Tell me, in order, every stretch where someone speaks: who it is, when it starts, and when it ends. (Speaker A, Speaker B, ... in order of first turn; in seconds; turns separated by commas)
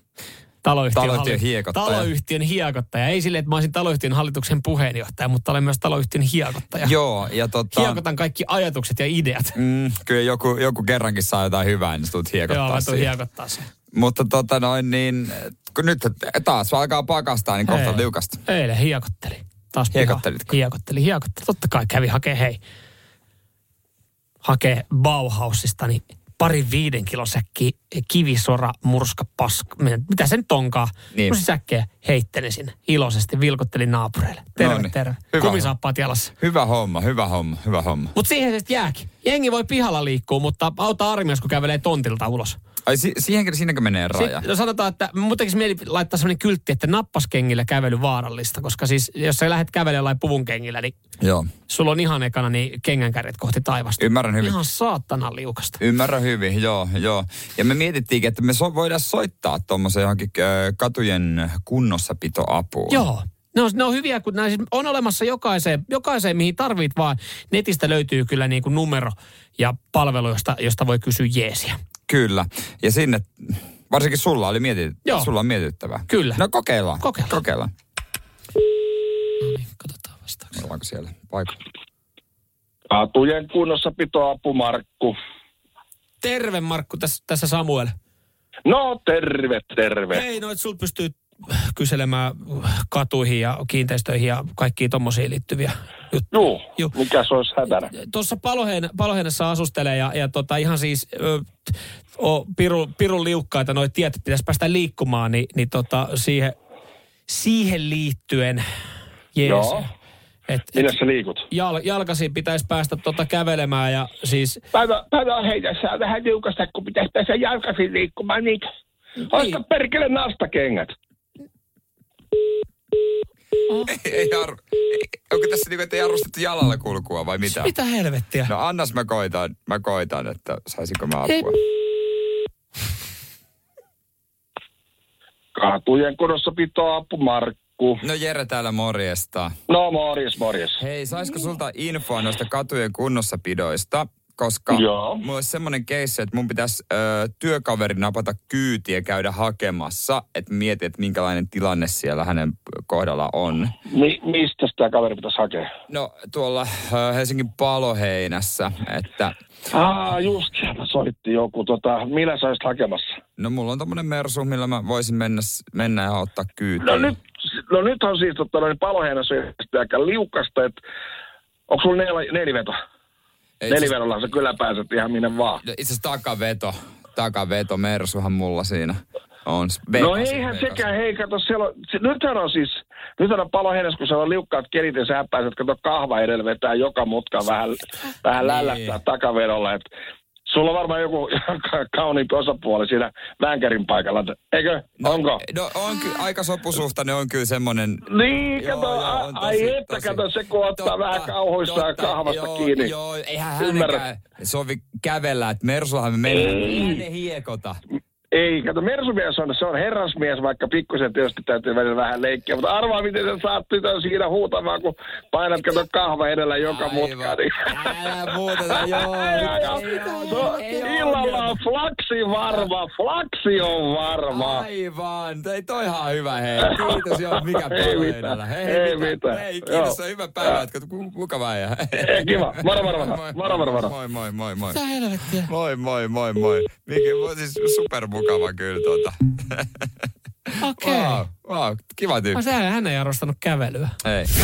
Speaker A: 0.6-7.0, Speaker B: 0.9-2.1, Speaker B: 6.8-8.0, Speaker A: 7.7-9.6, Speaker B: 9.6-13.1, Speaker A: 12.5-13.7, Speaker B: 13.9-18.4, Speaker A: 17.6-22.6, Speaker B: 19.9-20.6, Speaker A: 24.4-36.3, Speaker B: 34.6-35.7, Speaker B: 36.4-38.1, Speaker A: 38.1-42.6, Speaker B: 42.9-44.5, Speaker A: 44.1-50.9, Speaker B: 51.2-51.5, Speaker A: 51.7-55.8, Speaker B: 54.0-54.6, Speaker B: 55.8-63.1, Speaker A: 62.9-71.8, Speaker B: 72.1-77.7, Speaker A: 76.1-76.4, Speaker A: 77.0-77.4, Speaker A: 79.4-80.5, Speaker B: 80.5-81.6, Speaker C: 82.9-85.2, Speaker A: 86.2-87.9, Speaker C: 88.7-90.2, Speaker A: 90.1-96.9, Speaker C: 96.3-97.9, Speaker A: 97.9-106.5, Speaker A: 107.3-108.6, Speaker A: 109.3-109.9, Speaker C: 109.4-109.9, Speaker A: 110.5-110.9, Speaker C: 110.7-111.5, Speaker A: 111.5-114.6, Speaker C: 114.7-118.7, Speaker A: 119.3-119.6, Speaker C: 119.3-120.9, Speaker B: 123.8-127.8, Speaker A: 127.5-128.5, Speaker B: 128.5-131.6, Speaker C: 135.5-138.0, Speaker B: 138.0-139.5, Speaker C: 139.7-140.8, Speaker B: 140.8-153.8, Speaker C: 144.7-145.2, Speaker C: 153.9-155.7, Speaker B: 155.9-159.3, Speaker C: 159.7-163.0, Speaker B: 163.4-167.1, Speaker C: 166.8-170.8, Speaker C: 171.7-172.8, Speaker B: 173.6-173.9, Speaker C: 173.7-175.6, Speaker B: 175.6-180.9, Speaker C: 179.9-189.8, Speaker B: 188.4-189.0, Speaker C: 190.5-195.4, Speaker B: 195.0-200.2, Speaker C: 198.1-202.9, Speaker B: 200.8-207.8, Speaker C: 203.6-204.0, Speaker C: 206.3-207.0, Speaker C: 208.3-217.9, Speaker B: 216.6-221.6, Speaker C: 218.9-224.7, Speaker B: 222.4-222.7, Speaker B: 224.3-234.8, Speaker C: 226.6-230.6, Speaker C: 232.0-233.9, Speaker A: 234.7-235.5, Speaker B: 235.4-239.8, Speaker B: 240.5-242.4, Speaker A: 240.6-241.2, Speaker A: 242.3-244.0, Speaker B: 244.0-244.3